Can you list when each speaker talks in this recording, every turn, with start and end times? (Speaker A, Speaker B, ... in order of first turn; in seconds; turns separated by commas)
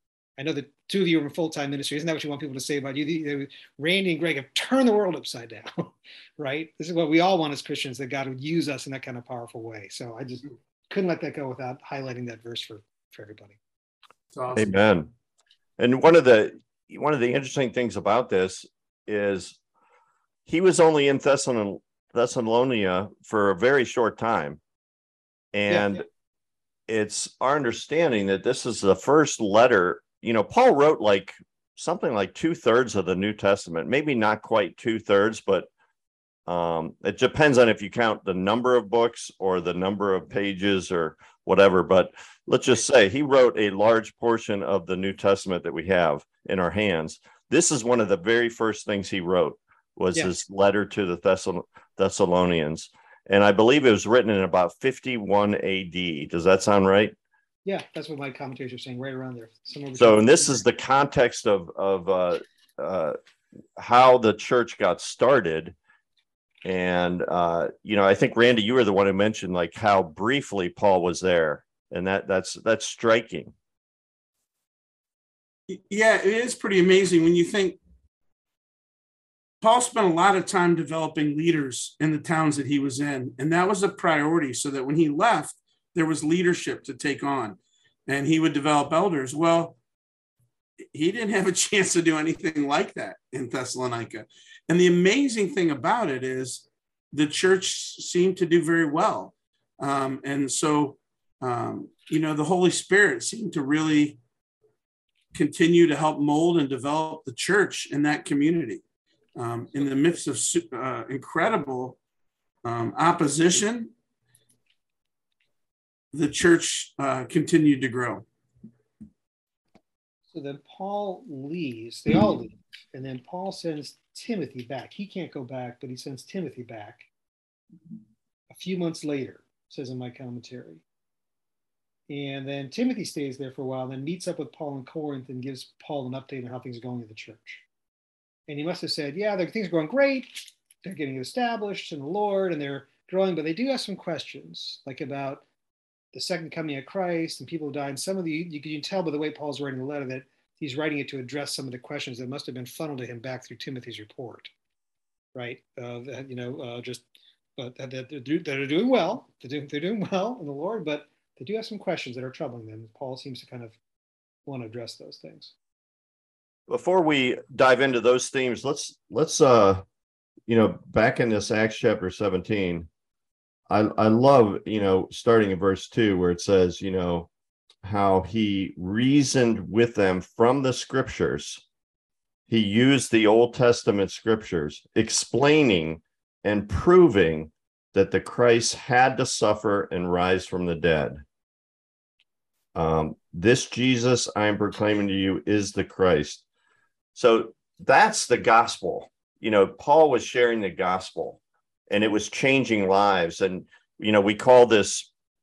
Speaker A: 0.4-13.6, Speaker B: 14.3-14.7, Speaker C: 14.5-15.1, Speaker C: 15.8-19.6, Speaker C: 20.5-24.6, Speaker C: 25.5-26.0, Speaker A: 25.7-26.0, Speaker C: 26.9-35.7, Speaker C: 36.5-57.1, Speaker A: 57.6-60.6, Speaker C: 60.0-63.1, Speaker C: 63.8-65.8, Speaker C: 66.6-73.5, Speaker B: 75.7-77.8, Speaker B: 79.6-89.8, Speaker B: 90.9-104.2, Speaker B: 105.3-108.8, Speaker B: 109.3-112.0, Speaker B: 112.6-113.9, Speaker B: 116.1-118.2, Speaker A: 120.3-127.1, Speaker A: 128.5-130.8, Speaker A: 132.1-137.6, Speaker A: 138.5-145.4, Speaker A: 146.1-154.5, Speaker A: 155.3-163.8, Speaker A: 164.4-165.5, Speaker C: 166.7-169.8, Speaker C: 170.5-172.9, Speaker C: 173.7-177.3, Speaker C: 177.8-181.6, Speaker C: 182.5-191.2, Speaker C: 192.7-196.4, Speaker C: 197.1-205.1